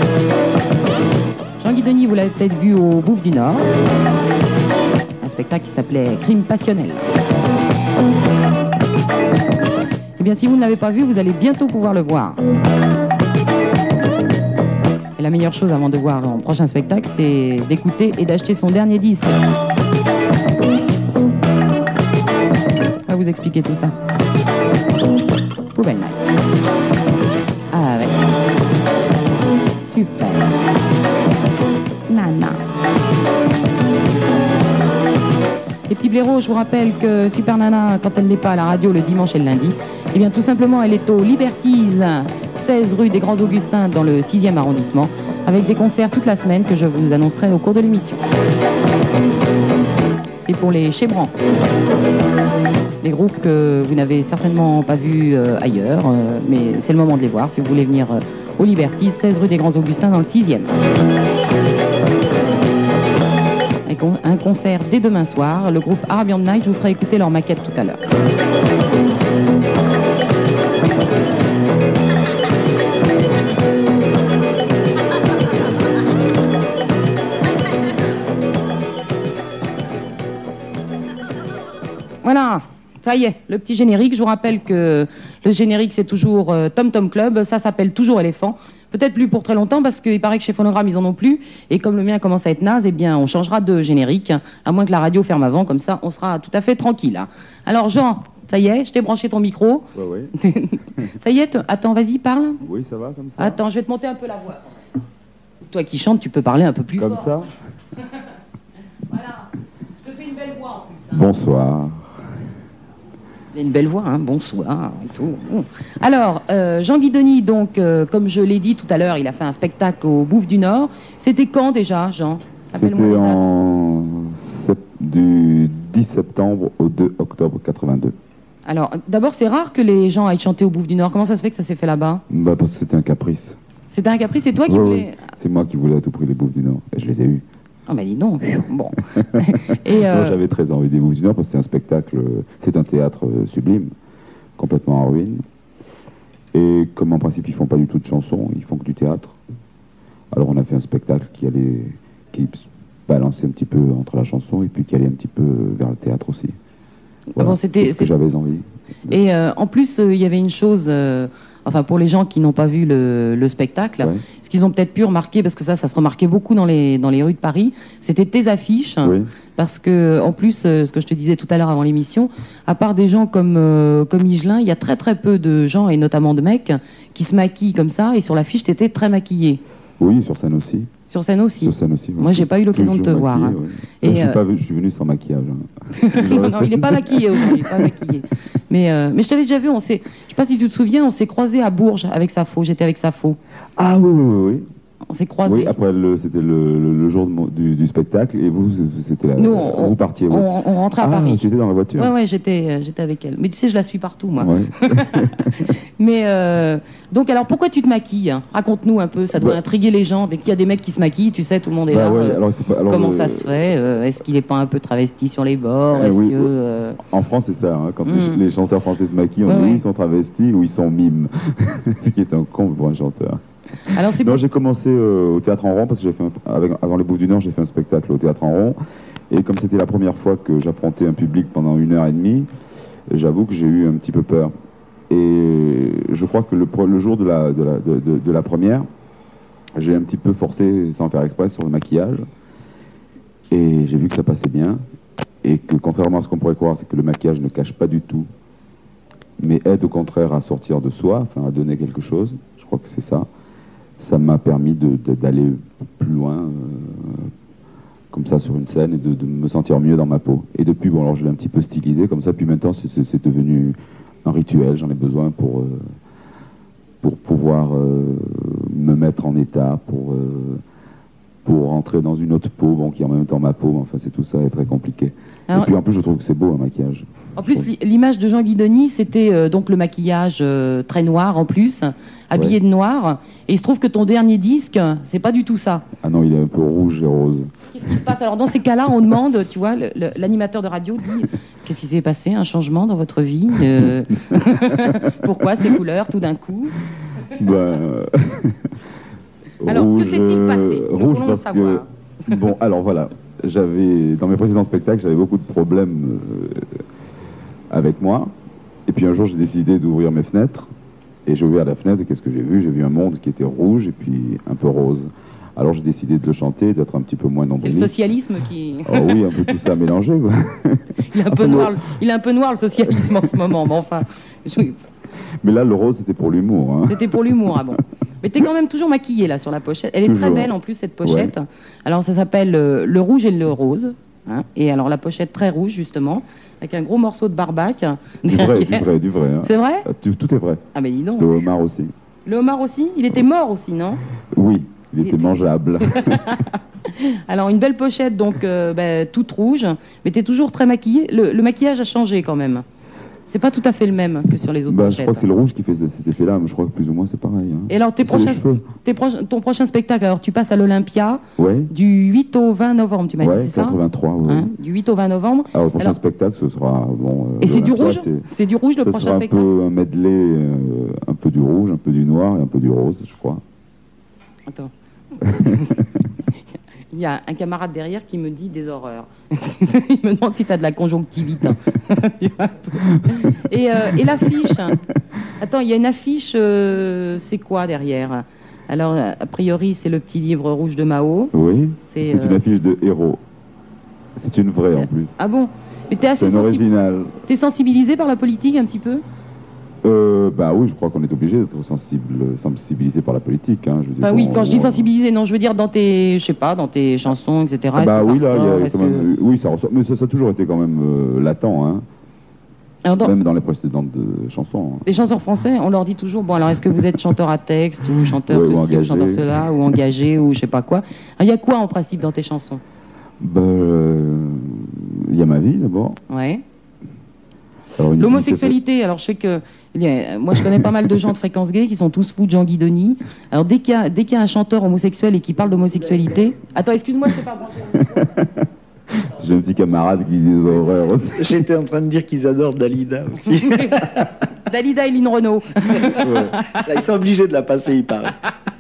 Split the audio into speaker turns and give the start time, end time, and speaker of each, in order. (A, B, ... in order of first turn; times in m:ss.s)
0:01.6-0:03.7 A
0:05.2-0:07.1 A
0:10.2-0:12.4 A
0:15.2-0:19.4 A
0:23.1-0:23.9 A
0:25.7-0:26.2 A
0:27.7-0:28.2 A
0:29.9-0:30.6 A
0:32.1-0:32.6 A
0:35.9-0:48.2 A
0:50.4-0:51.3 A
0:53.0-1:00.8 A
1:03.9-1:08.0 A
1:22.2-1:42.6 A
1:39.9-1:40.3 B
1:42.6-1:43.6 B
1:43.4-1:44.8 A
1:45.6-1:47.3 A
1:47.0-1:47.5 B
1:49.1-1:49.5 A
1:50.0-1:51.2 A
1:51.1-1:52.2 B
1:53.5-2:03.5 A
2:02.7-2:08.2 B
2:08.7-2:12.2 A
2:12.3-2:13.6 B
2:13.9-2:15.2 A
2:14.7-2:17.4 B
2:17.9-2:20.4 A
2:19.2-2:23.9 B
2:24.6-2:25.4 B
2:26.5-2:29.4 B
2:30.3-2:36.6 B
2:37.3-2:38.1 A
2:37.4-2:39.2 B
2:39.1-2:59.6 A
2:49.0-2:49.3 B
3:00.0-3:00.9 B
3:01.1-3:04.4 A
3:01.6-3:07.9 B
3:06.0-3:13.4 A
3:13.8-3:14.7 B
3:15.1-3:15.7 A
3:15.4-3:22.1 B
3:19.4-3:21.4 A
3:22.0-3:37.0 A
3:24.4-3:25.7 B
3:29.3-3:29.6 B
3:31.9-3:33.5 B
3:35.9-3:43.4 B
3:38.1-3:38.4 A
3:39.5-3:39.8 A
3:43.9-3:44.4 A
3:44.1-3:48.8 B
3:49.3-3:52.5 B
3:53.1-3:54.5 B
3:55.1-3:58.9 B
3:59.8-4:02.3 B
4:03.5-4:04.8 B
4:05.4-4:08.3 B
4:09.4-4:13.3 B
4:14.0-4:17.3 B
4:18.1-4:26.0 B
4:27.0-4:30.6 B
4:31.4-4:37.7 B
4:37.4-4:45.9 A
4:46.0-4:47.5 B
4:47.7-4:56.8 A
4:54.4-4:55.0 B
4:57.4-4:58.7 B
4:59.6-5:06.8 B
4:59.7-5:02.4 A
5:07.7-5:08.3 B
5:08.9-5:10.7 B
5:11.3-5:17.9 B
5:17.6-5:19.5 A
5:18.9-5:21.9 B
5:21.1-5:24.8 A
5:22.8-5:23.3 B
5:25.4-5:27.7 B
5:26.9-5:38.9 A
5:30.0-5:31.3 B
5:38.2-5:40.6 B
5:39.4-5:39.9 A
5:40.8-5:41.3 A
5:41.2-5:41.9 B
5:42.3-5:44.0 A
5:44.3-5:46.3 B
5:45.0-5:52.6 A
5:53.3-5:55.2 A
5:54.6-5:58.7 B
5:57.7-6:06.0 A
6:01.4-6:01.7 B
6:03.2-6:04.5 B
6:05.5-6:08.3 B
6:07.4-6:09.5 A
6:08.8-6:13.4 B
6:14.5-6:15.8 A
6:16.9-6:24.8 A
6:22.9-6:23.2 B
6:24.0-6:24.8 B
6:25.4-6:31.3 A
6:31.3-6:33.2 B
6:31.9-6:32.4 A
6:34.2-6:35.1 B
6:34.8-6:36.6 A
6:36.2-6:37.2 B
6:37.3-6:39.0 A
6:39.8-6:44.9 B
6:44.0-6:49.1 A
6:47.8-6:51.8 B
6:52.8-6:53.1 A
6:53.0-6:54.8 B
6:54.9-7:02.6 A
6:58.3-6:59.5 B
7:03.2-7:06.0 B
7:06.1-7:06.4 A
7:07.8-7:08.6 B
7:08.0-7:18.1 A
7:18.0-7:21.3 B
7:21.2-7:24.0 C
7:23.4-7:23.8 A
7:24.5-7:26.6 A
7:26.0-7:26.3 B
7:26.6-7:28.2 C